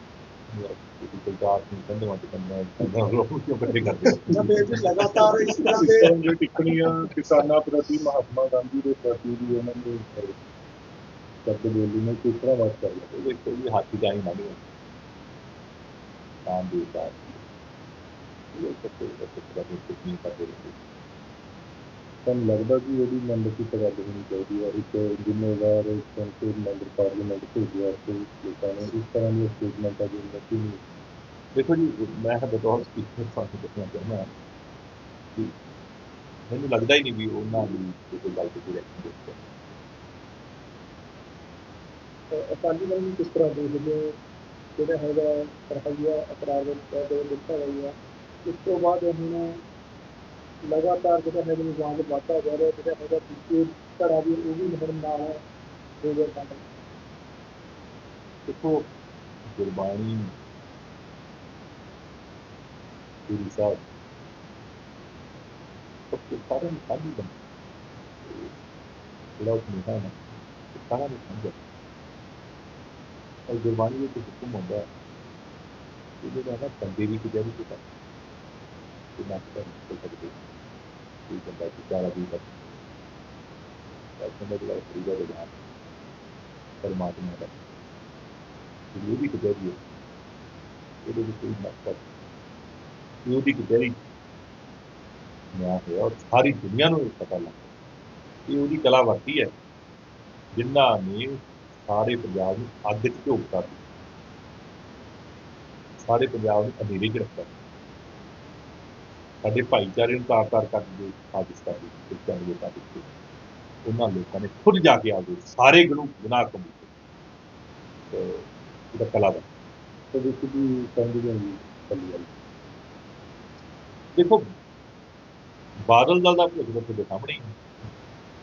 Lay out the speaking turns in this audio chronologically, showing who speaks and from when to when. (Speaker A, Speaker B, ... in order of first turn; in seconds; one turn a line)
Speaker A: 0.5-5.7
Speaker B: 4.3-6.1
Speaker C: 5.7-10.3
Speaker C: 11.4-13.2
Speaker A: 13.1-14.6
Speaker A: 16.5-17.4
Speaker A: 18.6-20.7
Speaker C: 22.2-30.8
Speaker A: 31.6-34.3
Speaker A: 36.5-39.4
Speaker B: 42.3-44.2
Speaker B: 44.8-47.9
Speaker B: 48.5-49.6
Speaker B: 50.7-55.4
Speaker B: 56.0-56.6
Speaker A: 58.5-58.9
Speaker A: 59.5-60.3
Speaker A: 63.3-63.8
Speaker A: 66.1-67.3
Speaker A: 68.3-68.5
Speaker A: 69.4-70.1
Speaker A: 70.7-71.6
Speaker A: 73.5-74.8
Speaker A: 76.2-77.8
Speaker A: 79.2-80.4
Speaker A: 81.3-82.5
Speaker A: 84.2-85.5
Speaker A: 86.8-87.5
Speaker A: 88.9-89.8
Speaker A: 91.1-92.0
Speaker A: 93.3-94.0
Speaker A: 95.5-97.7
Speaker A: 98.5-99.5
Speaker A: 100.5-103.8
Speaker A: 106.0-107.5
Speaker A: 109.4-113.1
Speaker A: 113.8-116.9
Speaker A: 118.1-119.5
Speaker C: 120.1-122.3
Speaker A: 124.2-124.4
Speaker A: 125.9-127.5